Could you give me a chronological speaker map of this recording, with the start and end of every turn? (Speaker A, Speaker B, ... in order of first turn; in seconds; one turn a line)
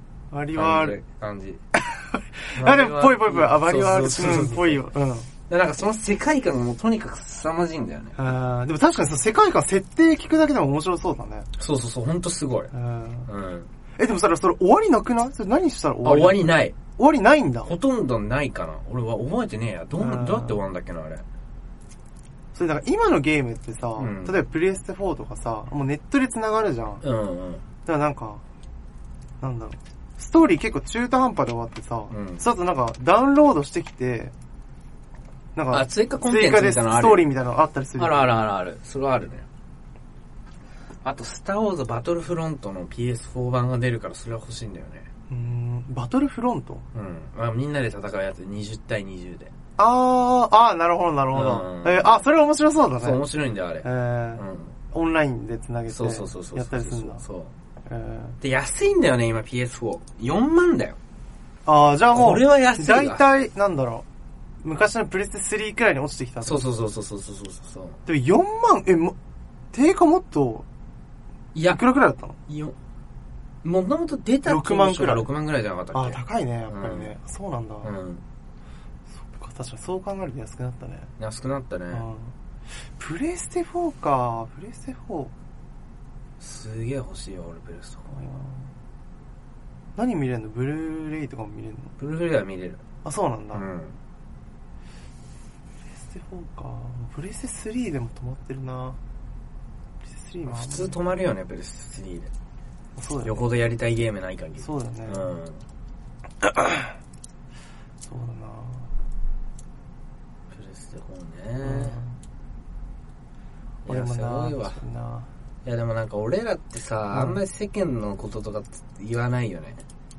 Speaker A: 0.3-1.0
Speaker B: 0.6-1.6
Speaker A: 1.7-5.3
Speaker B: 2.5-4.8
Speaker B: 5.5-8.2
Speaker A: 8.2-11.5
Speaker B: 11.6-12.7
Speaker A: 12.7-13.3
Speaker B: 13.3-13.7
Speaker A: 14.0-17.7
Speaker B: 16.0-16.8
Speaker B: 17.7-21.2
Speaker A: 20.0-20.6
Speaker A: 22.5-27.0
Speaker B: 24.0-24.4
Speaker B: 27.0-27.6
Speaker A: 27.9-28.4
Speaker A: 29.4-34.3
Speaker B: 32.1-32.4
Speaker A: 35.5-38.3
Speaker B: 35.7-37.3
Speaker B: 38.0-39.5
Speaker B: 41.0-45.1
Speaker A: 45.3-46.8
Speaker B: 46.9-49.5
Speaker A: 49.8-53.2
Speaker B: 51.3-52.2
Speaker B: 53.0-54.8
Speaker A: 53.8-57.2
Speaker B: 55.9-57.5
Speaker A: 57.9-58.4
Speaker B: 58.4-61.0
Speaker A: 61.7-64.0
Speaker B: 62.1-63.2
Speaker A: 64.6-66.7
Speaker B: 66.5-68.0
Speaker A: 68.1-69.2
Speaker A: 69.7-70.7
Speaker B: 71.5-71.8
Speaker A: 71.7-72.4
Speaker B: 72.5-72.8
Speaker B: 73.6-77.1
Speaker A: 74.5-75.3
Speaker A: 75.9-77.9
Speaker B: 77.8-78.2
Speaker A: 79.3-81.1
Speaker B: 81.2-82.0
Speaker A: 81.9-82.3
Speaker A: 83.0-85.3
Speaker B: 86.4-88.1
Speaker A: 88.1-88.7
Speaker A: 90.0-91.9
Speaker B: 92.0-92.8
Speaker A: 93.0-93.7
Speaker B: 93.5-94.0
Speaker A: 95.9-99.0
Speaker A: 100.0-101.0
Speaker B: 100.5-102.3
Speaker A: 103.0-103.4
Speaker B: 103.2-105.6
Speaker A: 104.6-105.3
Speaker A: 106.4-106.9
Speaker A: 108.1-108.9
Speaker B: 110.5-112.0
Speaker A: 111.6-112.1
Speaker B: 113.9-114.8
Speaker A: 113.9-115.3
Speaker B: 115.7-119.8
Speaker A: 117.1-117.4